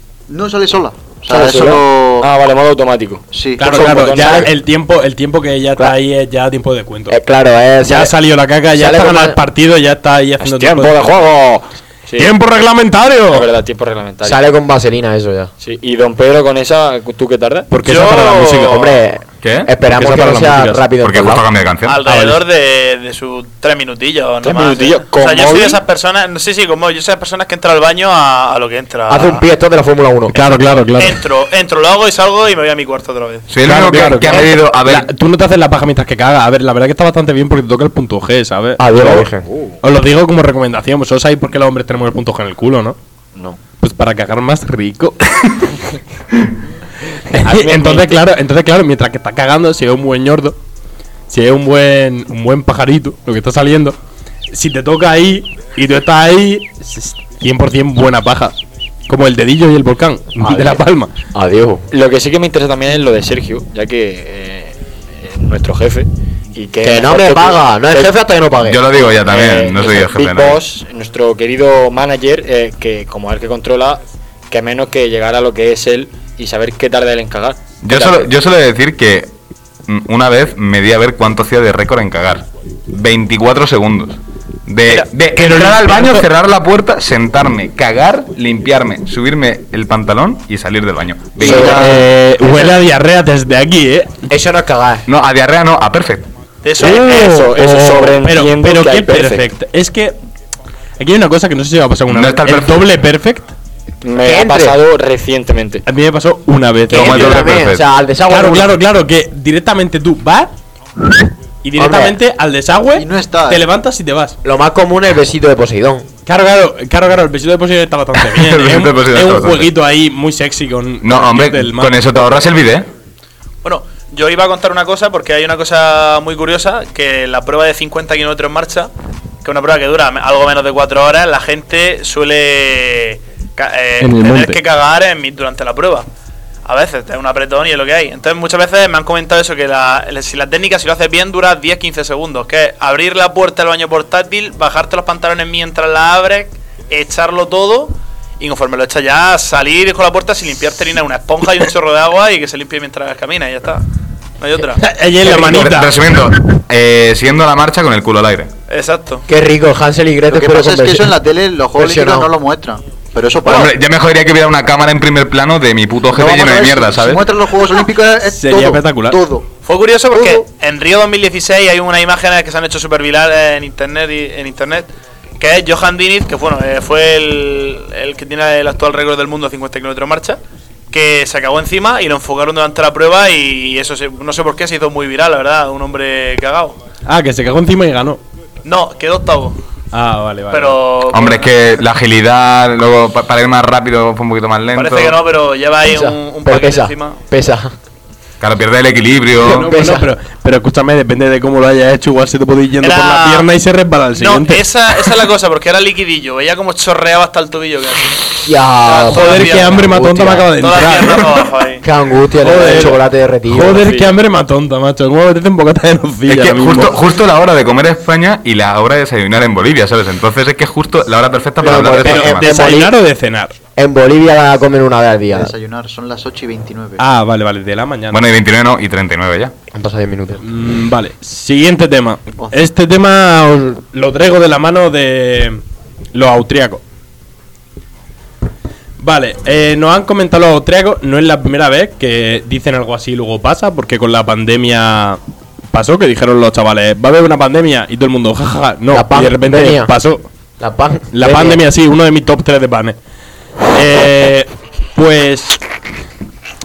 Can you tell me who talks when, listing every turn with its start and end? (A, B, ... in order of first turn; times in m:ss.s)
0:00.3-0:02.3 A
0:01.3-0:04.5 B
0:03.3-0:04.1 A
0:03.6-0:07.2 C
0:04.1-0:04.5 D
0:07.1-0:08.1 D
0:07.8-0:11.0 C
0:08.7-0:09.4 D
0:10.4-0:12.4 B
0:12.2-0:13.5 C
0:13.3-0:14.4 B
0:14.2-0:15.5 D
0:15.6-0:17.7 B
0:17.7-0:18.9 C
0:17.8-0:18.9 E
0:18.1-0:21.5 D
0:19.4-0:19.7 F
0:19.9-0:20.9 C
0:21.0-0:22.0 F
0:21.8-0:29.4 E
0:22.1-0:22.4 C
0:24.4-0:25.8 B
0:29.1-0:30.4 D
0:30.3-0:31.2 C
0:30.8-0:33.5 E
0:33.5-0:35.1 F
0:33.6-0:39.2 C
0:34.3-0:34.6 D
0:38.8-0:39.5 D
0:39.0-0:39.8 B
0:39.8-0:43.0 C
0:43.8-0:45.7 C
0:47.3-0:48.2 B
0:47.3-0:50.6 C
0:51.3-0:54.0 C
0:54.5-0:58.6 C
0:59.1-1:01.1 C
1:00.4-1:00.8 D
1:01.3-1:01.8 D
1:01.9-1:08.2 B
1:06.8-1:08.8 D
1:08.6-1:10.6 F
1:09.0-1:18.3 B
1:17.8-1:19.3 F
1:19.9-1:32.0 F
1:25.3-1:26.3 C
1:31.4-1:32.0 D
1:31.4-1:34.3 C
1:34.3-1:35.1 D
1:35.1-1:36.3 F
1:36.6-1:37.4 E
1:36.8-1:39.5 B
1:36.8-1:40.2 C
1:41.0-1:43.5 C
1:42.1-1:42.9 F
1:44.0-1:45.8 B
1:44.2-1:44.8 D
1:45.9-1:47.7 C
1:46.9-1:48.7 D
1:46.9-1:47.8 F
1:48.3-1:50.5 C
1:51.6-1:54.4 C
1:51.8-1:52.2 D
1:52.9-1:53.6 A
1:54.4-1:56.1 D
1:56.3-2:02.5 C
1:58.2-1:59.7 F
2:01.0-2:02.9 F
2:03.6-2:08.9 E
2:09.4-2:16.1 E
2:14.0-2:14.6 C
2:16.6-2:33.9 E
2:34.4-2:34.8 E
2:34.8-2:36.2 C
2:35.2-2:38.5 F
2:38.7-2:39.2 E
2:39.3-2:41.2 D
2:40.3-2:43.7 A
2:41.8-2:42.3 D
2:43.4-2:47.3 F
2:46.1-2:49.5 A
2:48.3-2:49.2 C
2:49.6-3:00.4 E
2:50.1-2:50.4 A
3:00.9-3:06.8 E
3:07.1-3:08.2 C
3:08.6-3:09.6 E
3:09.9-3:10.8 C
3:10.5-3:11.5 E
3:11.1-3:15.2 F
3:14.7-3:17.2 E
3:15.8-3:17.7 D
3:18.4-3:19.7 F
3:19.4-3:24.6 C
3:19.4-3:20.1 D
3:22.8-3:23.5 E
3:24.1-3:29.8 E
3:28.4-3:30.5 D
3:29.1-3:31.3 C
3:30.6-3:31.8 E
3:31.8-3:33.9 D
3:32.4-3:37.0 C
3:33.8-3:34.2 B
3:36.3-3:42.5 F
3:41.6-3:42.9 D
3:42.0-3:43.6 C
3:43.8-3:45.5 D
3:45.3-3:47.0 A
3:47.0-3:48.2 C
3:48.1-3:49.5 F
3:49.7-3:50.4 D
3:50.4-3:55.6 C
3:56.1-3:56.8 C
3:59.0-4:05.2 C
4:05.7-4:10.2 C
4:08.9-4:09.9 D
4:10.6-4:11.6 D
4:11.1-4:13.0 C
4:13.7-4:15.6 C